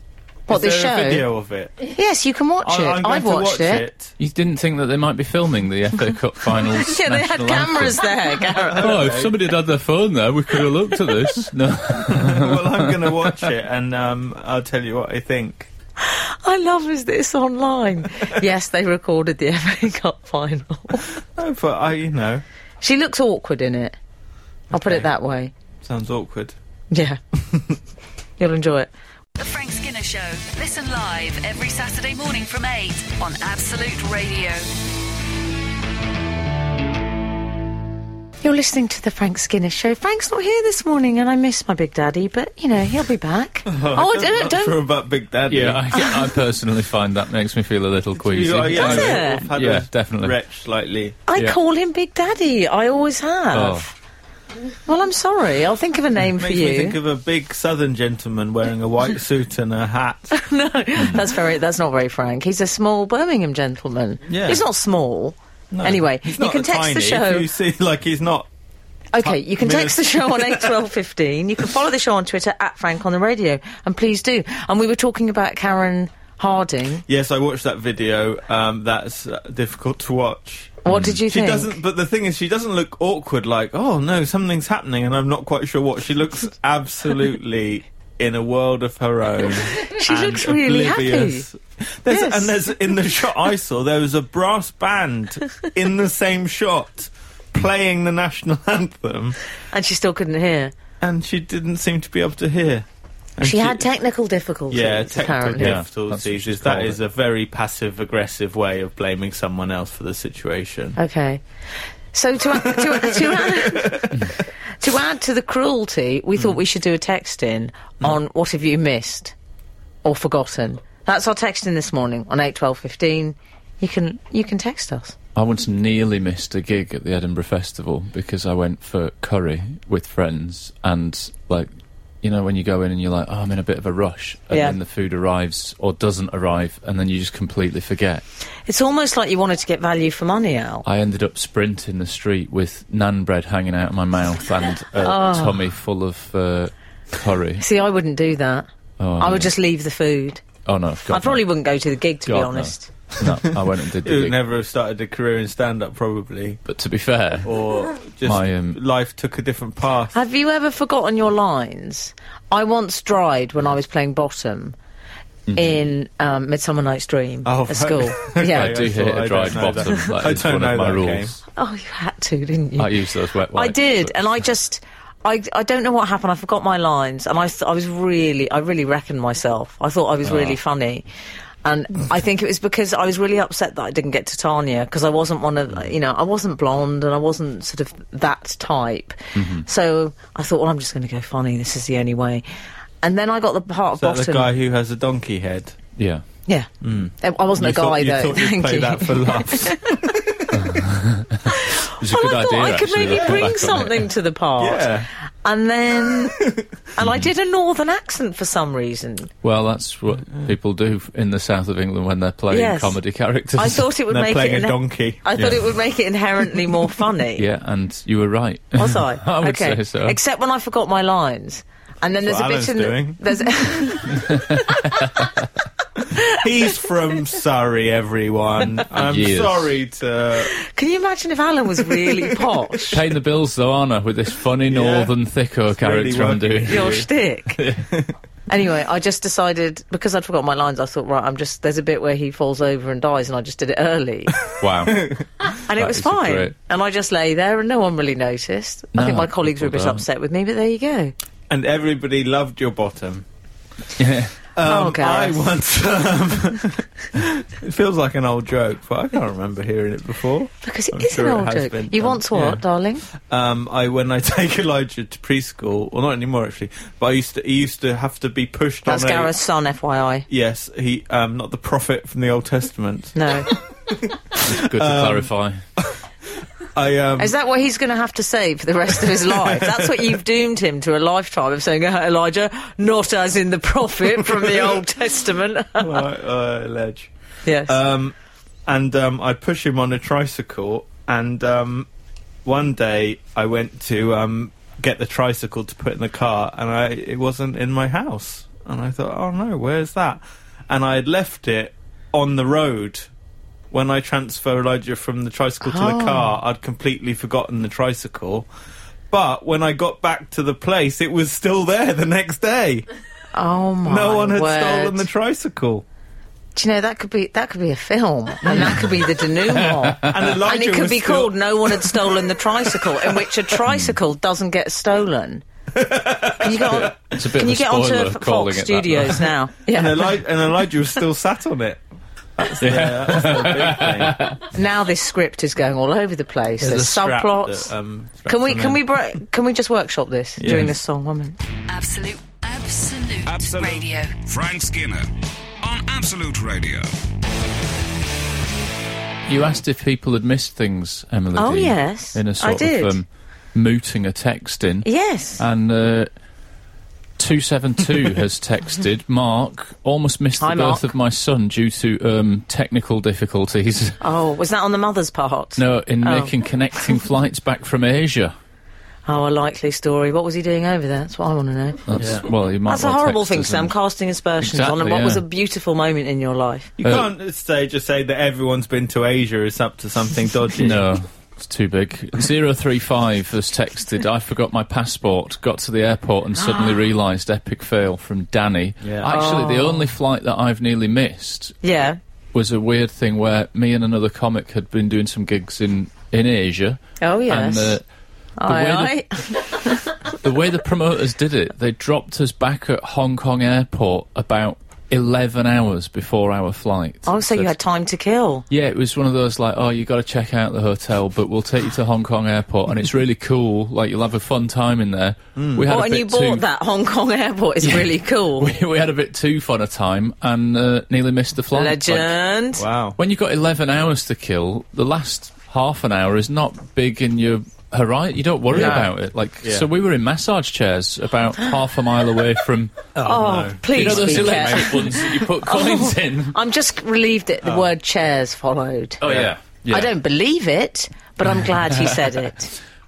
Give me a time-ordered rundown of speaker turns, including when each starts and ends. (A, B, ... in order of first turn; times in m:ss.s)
0:00.5-0:01.3 A
0:00.5-0:01.7 B
0:01.8-0:03.8 A
0:02.6-0:04.1 B
0:04.2-0:08.1 C
0:06.7-0:09.0 A
0:08.5-0:09.4 B
0:08.8-0:13.5 C
0:12.0-0:15.7 B
0:16.0-0:21.1 A
0:21.4-0:22.4 B
0:22.8-0:24.0 A
0:24.7-0:25.1 B
0:24.7-0:25.5 A
0:25.8-0:26.5 B
0:26.9-0:27.2 A
0:28.4-0:28.9 A
0:29.4-0:34.6 D
0:38.4-0:44.8 A
0:43.7-0:46.0 B
0:45.5-0:50.4 C
0:48.2-0:51.2 B
0:48.7-0:49.4 A
0:51.3-0:53.9 A
0:53.5-0:53.9 C
0:54.8-0:57.0 A
0:56.4-1:00.4 B
1:00.3-1:07.5 A
1:01.0-1:01.2 C
1:04.3-1:04.6 B
1:05.7-1:08.5 B
1:09.1-1:17.0 A
1:09.2-1:10.7 B
1:17.1-1:39.4 B
1:20.8-1:21.7 A
1:20.9-1:21.2 C
1:29.6-1:31.4 A
1:32.1-1:32.5 A
1:39.7-1:40.7 A
1:41.0-1:42.8 B
1:43.4-1:43.8 B
1:43.4-1:45.8 A
1:44.7-1:51.0 B
1:45.6-1:47.0 C
1:51.0-1:51.4 A
1:52.1-1:59.3 A
1:52.6-1:54.2 B
2:00.0-2:05.2 A
2:05.3-2:11.7 C
2:12.2-2:18.2 C
2:14.5-2:14.8 A
2:18.7-2:20.8 A
2:20.8-2:27.6 C
2:25.0-2:25.6 A
2:27.6-2:30.4 A
2:29.0-2:29.5 C
2:30.6-2:31.4 C
2:31.1-2:32.9 A
2:32.2-2:34.4 C
2:33.2-2:36.6 B
2:36.6-2:37.6 C
2:37.4-2:40.2 B
2:38.2-2:38.8 C
2:40.1-2:44.8 A
2:45.5-2:45.8 C
2:45.5-2:48.8 A
2:47.4-2:51.3 B
2:48.5-2:51.4 C
2:51.6-3:01.0 A
2:52.8-2:54.2 C
3:00.2-3:00.6 C
3:01.6-3:12.4 A
3:09.3-3:09.6 C
3:13.0-3:14.5 A
3:14.0-3:15.8 B
3:16.0-3:16.2 C
3:16.5-3:20.0 A
3:16.8-3:20.7 B
3:20.5-3:24.1 C
3:21.5-3:29.3 A
3:23.1-3:23.4 B
3:24.6-3:25.1 B
3:27.0-3:27.3 C
3:29.4-3:33.8 C
3:32.5-3:33.0 A
3:33.5-3:37.4 A
3:34.1-3:35.6 B
3:37.4-3:40.2 C
3:38.8-3:45.1 A
3:42.2-3:43.9 B
3:44.1-3:45.4 C
3:46.1-3:46.8 A
3:46.3-3:50.6 B
3:48.9-3:49.7 C
3:50.5-3:53.0 A
3:52.9-3:57.9 C
3:54.7-3:55.1 B
3:55.8-3:57.1 B
3:56.6-3:57.6 A
3:58.5-4:04.4 A
4:04.6-4:05.1 C
4:04.8-4:05.2 B
4:05.6-4:11.1 A
4:05.7-4:06.5 C
4:08.9-4:10.0 C
4:11.5-4:13.2 B
4:14.0-4:14.3 C
4:14.5-4:22.6 B
4:14.6-4:15.5 A
4:20.6-4:23.0 A
4:23.2-4:29.3 B
4:28.8-4:30.3 A
4:30.3-4:35.9 B
4:33.1-4:33.5 A
4:34.4-4:35.6 C
4:36.7-4:37.3 B
4:37.2-4:46.0 A
4:39.1-4:40.1 B
4:44.3-4:44.8 B
4:45.8-4:47.1 B
4:47.4-4:47.8 A
4:47.7-4:48.1 B
4:48.7-4:51.9 B
4:52.4-5:03.1 B
5:03.7-5:08.5 B
5:05.6-5:06.3 A
5:09.1-5:12.8 B
5:13.3-5:15.1 A
5:13.8-5:15.8 B
5:16.5-5:25.4 A
5:18.4-5:18.9 B
5:18.5-5:20.3 C
5:20.0-5:23.3 B
5:23.7-5:24.0 C
5:25.7-5:26.9 B
5:26.4-5:30.2 A
5:26.9-5:29.3 C
5:29.7-5:31.8 B
5:32.4-5:34.2 B
5:32.6-5:34.4 C
5:34.5-5:37.7 A
5:36.6-5:38.8 B
5:38.3-5:41.4 A
5:40.4-5:40.7 B
5:40.4-5:40.7 C
5:41.7-5:44.2 D
5:43.2-5:45.1 E
5:45.6-5:46.9 E
5:49.3-5:54.9 C
5:51.4-5:53.0 A
5:54.8-5:55.4 A
5:55.4-5:56.1 C
5:57.2-6:04.0 C
6:00.4-6:00.8 A
6:04.0-6:06.3 A
6:05.6-6:08.3 C
6:09.0-6:12.0 A
6:11.9-6:13.7 C
6:12.0-6:12.2 B
6:12.6-6:16.7 A
6:14.4-6:15.2 C
6:16.8-6:20.9 B
6:16.8-6:17.1 C
6:20.6-6:31.6 C
6:28.8-6:29.2 B
6:29.1-6:29.9 A
6:31.6-6:32.0 A
6:32.3-6:37.8 C
6:37.0-6:37.8 A
6:38.4-6:39.9 A
6:38.4-6:39.0 C
6:40.2-6:47.5 C
6:47.0-6:48.4 A
6:48.5-6:56.4 C
6:55.4-6:55.7 B
6:55.7-6:58.5 A
6:57.6-7:02.1 C
7:01.5-7:02.6 A
7:02.6-7:03.0 B
7:03.0-7:12.9 C
7:08.5-7:08.9 B
7:08.5-7:08.9 A
7:09.4-7:09.7 B
7:12.9-7:15.1 B
7:13.0-7:19.0 A
7:13.7-7:16.4 C
7:17.4-7:17.7 B
7:19.0-7:19.9 C
7:19.0-7:19.3 B
7:19.7-7:22.5 A
7:21.7-7:22.0 C